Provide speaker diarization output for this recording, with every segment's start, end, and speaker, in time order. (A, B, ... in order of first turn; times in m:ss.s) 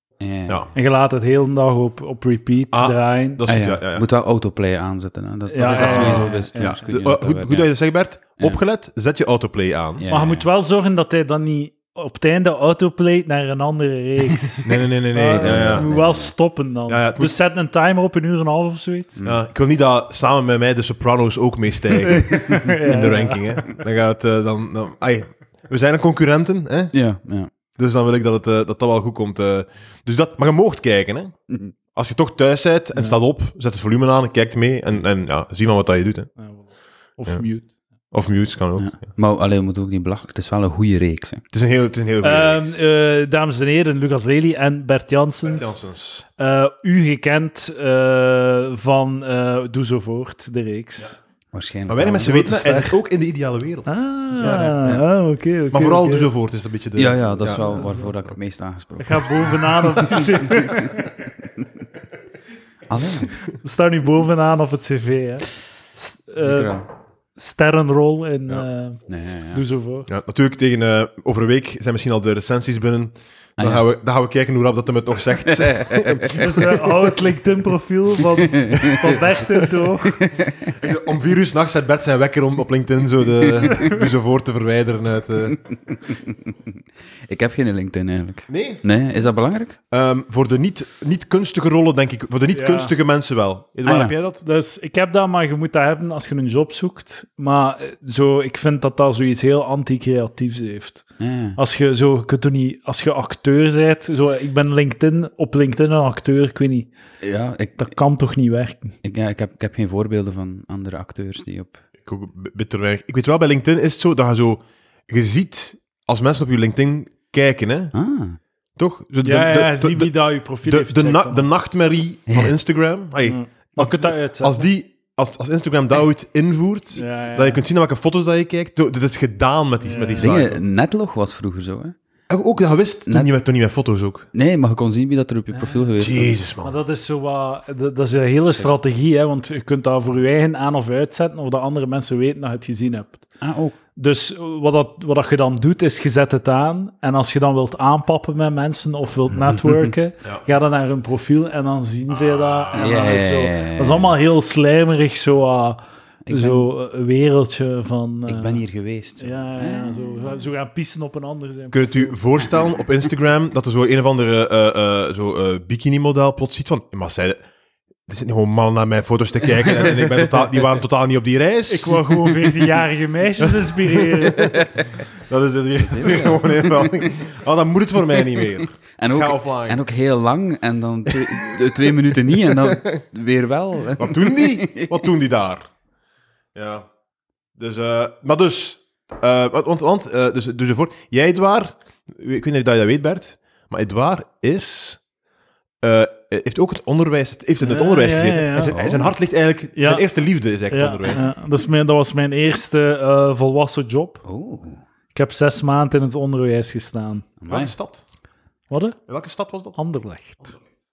0:00.2-0:00.7 A
0:00.7-0:03.4 B
0:02.7-0:04.0 C
0:03.4-0:07.7 A
0:05.5-0:06.8 B
0:05.6-0:10.0 C
0:10.0-0:10.4 A
0:10.1-0:19.2 B
0:14.6-0:15.9 C
0:15.3-0:16.3 A
0:16.9-0:17.3 C
0:19.2-0:19.4 A
0:19.2-0:27.0 C
0:22.1-0:23.8 B
0:26.9-0:27.5 A
0:27.7-0:31.4 C
0:31.9-0:36.3 C
0:36.4-0:37.7 B
0:38.1-0:39.1 C
0:38.8-0:41.4 A
0:41.5-0:42.7 C
0:42.2-0:45.7 B
0:45.5-0:46.2 C
0:46.4-0:51.2 B
0:51.5-0:53.0 A
0:51.9-0:54.8 C
0:53.8-0:56.3 B
0:54.4-0:55.0 A
0:55.7-0:58.0 C
0:57.0-1:00.8 A
0:57.6-0:58.1 B
0:59.0-1:01.2 B
1:02.9-1:03.4 A
1:03.6-1:06.8 B
1:06.4-1:06.8 A
1:07.4-1:10.1 B
1:09.1-1:09.6 A
1:10.1-1:16.8 C
1:13.6-1:13.8 A
1:15.5-1:16.4 A
1:16.4-1:20.2 B
1:18.4-1:19.2 A
1:20.2-1:20.8 A
1:20.7-1:25.6 C
1:25.7-1:29.8 A
1:28.5-1:28.8 C
1:29.9-1:34.4 C
1:32.5-1:32.9 B
1:33.8-1:34.1 A
1:34.4-1:46.9 B
1:41.2-1:41.6 A
1:47.2-1:47.9 A
1:47.8-1:49.0 B
1:49.0-1:51.8 A
1:52.0-1:57.9 C
1:57.9-1:58.4 A
1:58.8-2:10.6 C
1:59.2-2:01.5 B
2:02.3-2:02.5 A
2:03.2-2:04.7 B
2:06.9-2:07.6 B
2:09.8-2:10.3 B
2:10.2-2:12.0 A
2:12.3-2:14.3 C
2:14.3-2:16.4 A
2:15.5-2:15.9 B
2:16.0-2:16.8 C
2:16.6-2:23.2 B
2:23.4-2:23.7 A
2:24.0-2:38.6 B
2:29.6-2:29.9 A
2:32.1-2:32.9 C
2:32.7-2:34.1 A
2:36.2-2:36.7 A
2:38.3-2:40.3 A
2:39.2-2:42.1 B
2:41.7-2:47.4 C
2:48.0-2:52.0 C
2:49.7-2:50.4 A
2:51.7-2:54.6 B
2:54.4-2:54.8 A
2:55.3-2:59.8 C
2:55.9-2:57.1 A
2:59.0-3:05.0 A
3:02.5-3:03.0 C
3:04.0-3:05.7 C
3:06.5-3:06.8 C
3:07.6-3:15.0 C
3:15.8-3:21.2 C
3:17.6-3:18.8 B
3:18.6-3:19.1 A
3:19.7-3:20.0 B
3:20.7-3:24.2 B
3:24.2-3:24.8 A
3:25.1-3:27.3 B
3:27.4-3:27.7 A
3:27.5-3:28.0 C
3:28.7-3:29.0 B
3:29.1-3:29.8 C
3:29.7-3:30.5 B